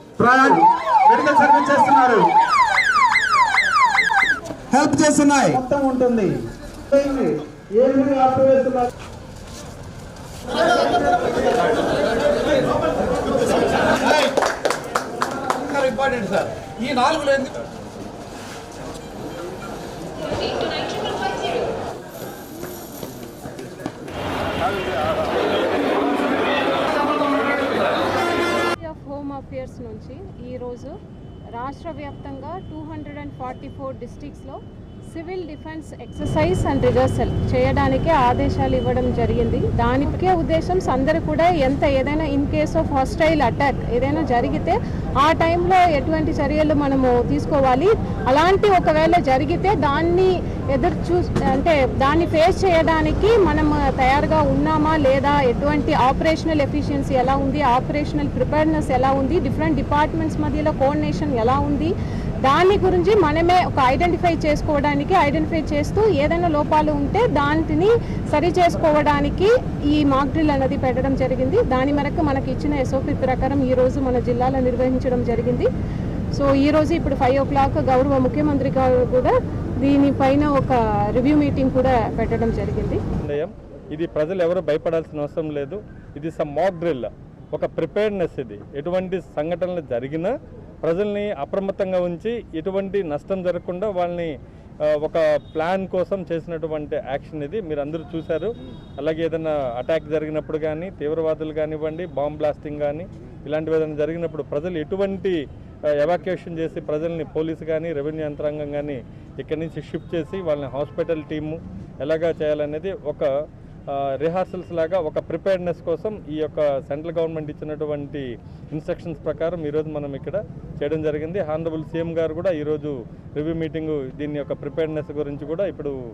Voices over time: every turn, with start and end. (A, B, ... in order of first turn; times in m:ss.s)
0:00.2-0:02.2 A
0:04.7-0:05.5 B
0:04.8-0:06.3 A
0:06.9-0:08.9 A
0:14.0-0:14.3 B
0:15.6-0:17.5 B
0:28.7-0:31.0 C
0:31.5-0:34.6 C
0:35.1-1:01.9 C
1:02.4-1:15.7 C
1:16.3-1:23.0 C
1:23.2-1:34.3 D
1:35.0-1:45.4 D
1:46.0-1:53.3 D
1:53.9-2:05.9 D